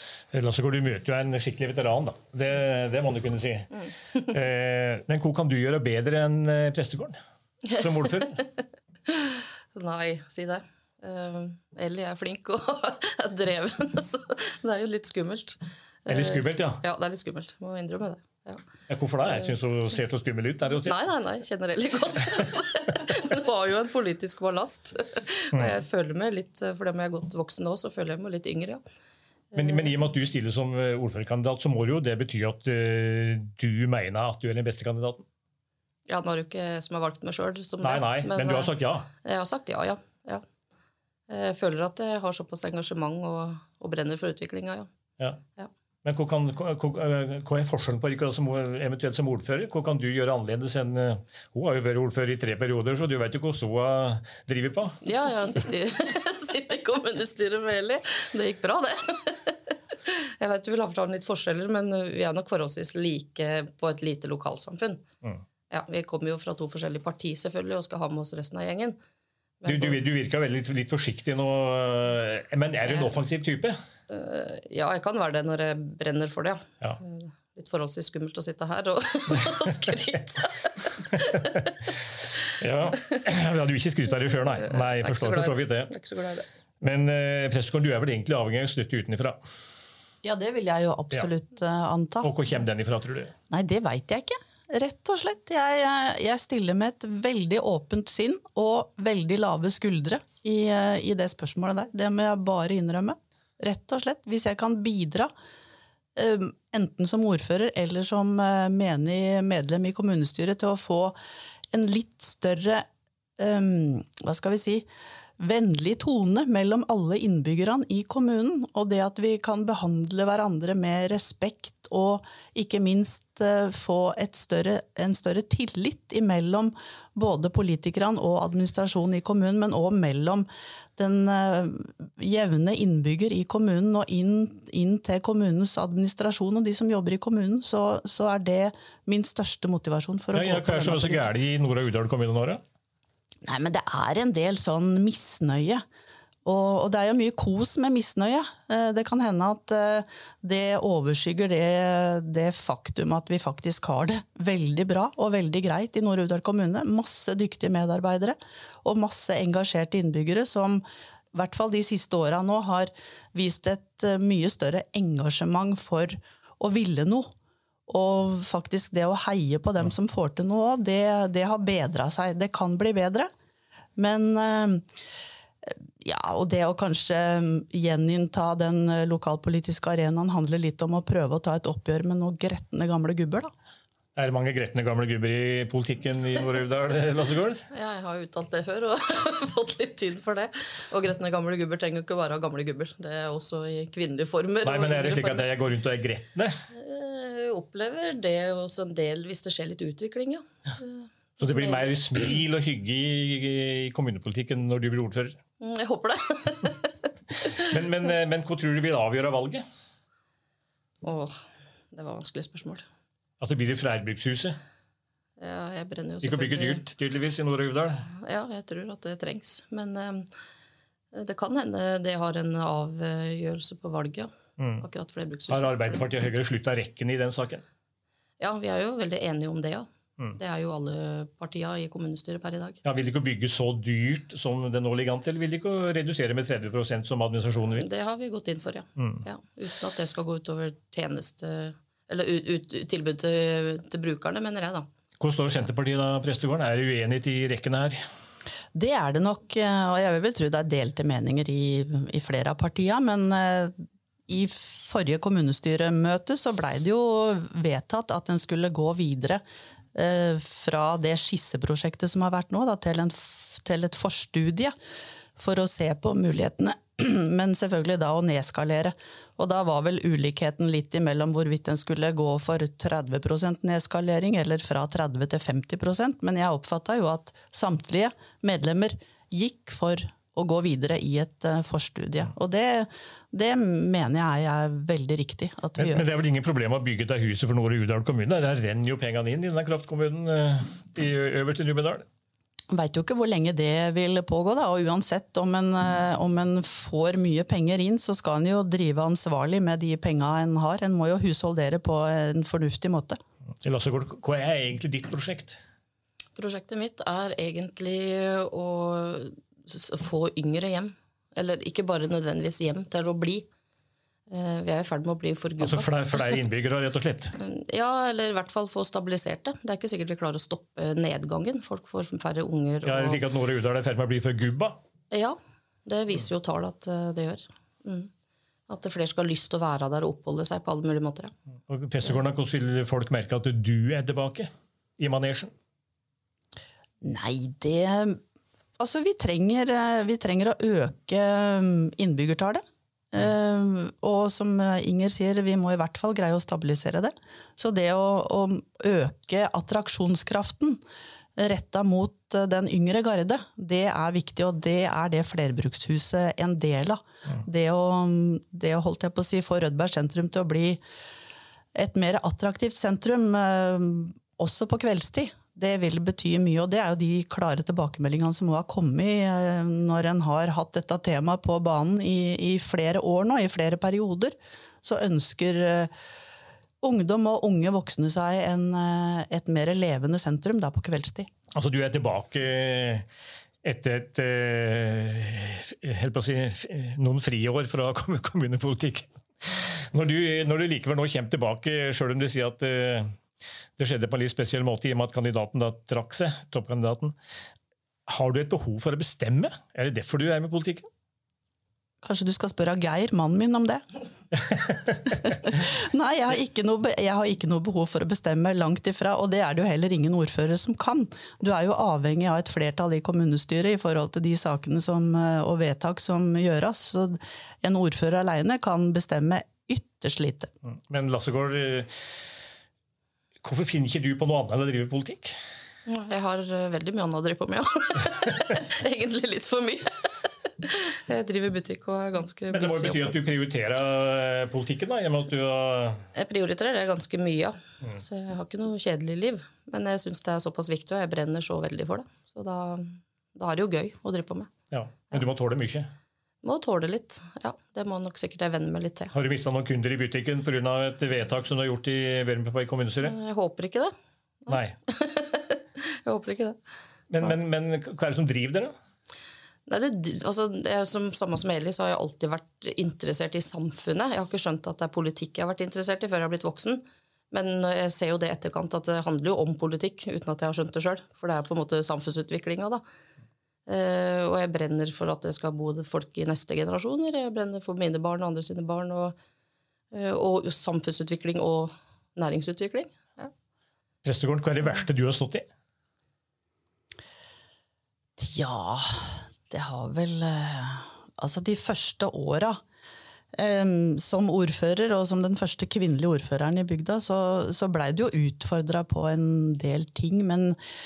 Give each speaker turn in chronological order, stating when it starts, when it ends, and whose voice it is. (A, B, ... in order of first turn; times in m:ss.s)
0:00.3-0:03.7 A
0:04.3-0:07.2 A
0:07.7-0:08.3 B
0:07.8-0:08.4 A
0:09.1-0:18.6 B
0:16.1-0:16.8 A
0:18.9-0:21.0 A
0:20.8-0:28.8 B
0:29.5-0:29.9 B
0:29.6-0:35.2 A
0:36.1-0:40.4 B
0:37.8-0:39.1 A
0:41.3-0:44.9 B
0:46.0-0:55.0 A
0:55.0-1:05.0 B
1:05.7-1:09.0 B
1:09.6-1:10.0 B
1:09.6-1:13.8 A
1:12.8-1:13.1 B
1:14.1-1:21.7 B
1:22.6-1:25.9 A
1:24.6-1:26.4 B
1:26.8-1:29.4 A
1:30.2-1:32.4 C
1:32.2-1:33.3 A
1:33.5-1:45.3 C
1:46.2-1:51.2 C
1:51.7-1:52.8 C
1:53.4-1:54.9 C
1:55.4-2:21.2 C
2:20.3-2:22.6 A
2:23.4-2:25.8 C
2:26.4-2:47.3 C
2:47.9-2:53.3 C
2:54.0-2:54.8 C
2:55.6-3:03.5 C
3:04.2-3:07.6 A
3:07.7-3:15.5 B
3:14.6-3:16.6 A
3:16.7-3:21.9 B
3:21.4-3:25.4 A
3:25.6-3:27.6 B
3:27.6-3:29.6 A
3:31.0-3:31.3 B
3:31.9-3:32.8 B
3:33.4-3:34.6 A
3:35.4-3:36.8 B
3:36.2-3:38.0 A
3:38.1-3:40.3 B
3:41.1-3:46.0 B
3:44.6-3:44.8 A
3:45.5-3:47.6 A
3:48.4-3:52.8 B
3:52.8-3:57.9 A
3:57.8-4:04.9 B
3:59.0-3:59.2 A
4:05.2-4:08.0 A
4:08.7-4:19.4 C
4:19.9-4:24.7 C
4:25.4-4:46.0 C
4:45.8-4:52.0 A
4:52.7-5:03.2 C
5:03.6-5:05.6 A
5:06.4-5:13.5 B
5:14.3-5:15.9 B
5:15.6-5:17.3 A
5:17.4-5:23.2 B
5:22.8-5:24.8 A
5:25.1-5:28.1 B
5:28.7-5:31.3 B
5:31.7-5:35.5 A
5:37.0-5:38.2 C
5:38.8-5:50.8 C
5:51.4-6:00.8 C
6:01.7-6:15.9 C
6:16.8-6:21.3 C
6:21.5-6:23.0 A
6:23.6-6:33.1 A
6:33.8-6:37.1 A
6:38.1-6:40.9 A
6:42.0-6:43.8 C
6:45.0-7:00.5 C
7:00.7-7:01.9 A
7:03.4-7:05.3 A
7:05.9-7:13.2 B
7:12.5-7:16.0 A
7:16.1-7:24.5 B
7:24.7-7:25.9 A
7:26.4-7:29.1 B
7:29.1-7:33.1 A
7:33.0-7:33.9 B
7:34.4-7:36.6 B
7:34.5-7:34.7 A
7:37.1-7:38.7 A
7:39.7-7:52.8 B
7:53.7-7:59.2 B
7:59.9-8:03.3 B
8:04.0-8:05.4 A
8:08.2-8:12.6 C
8:13.3-8:20.6 C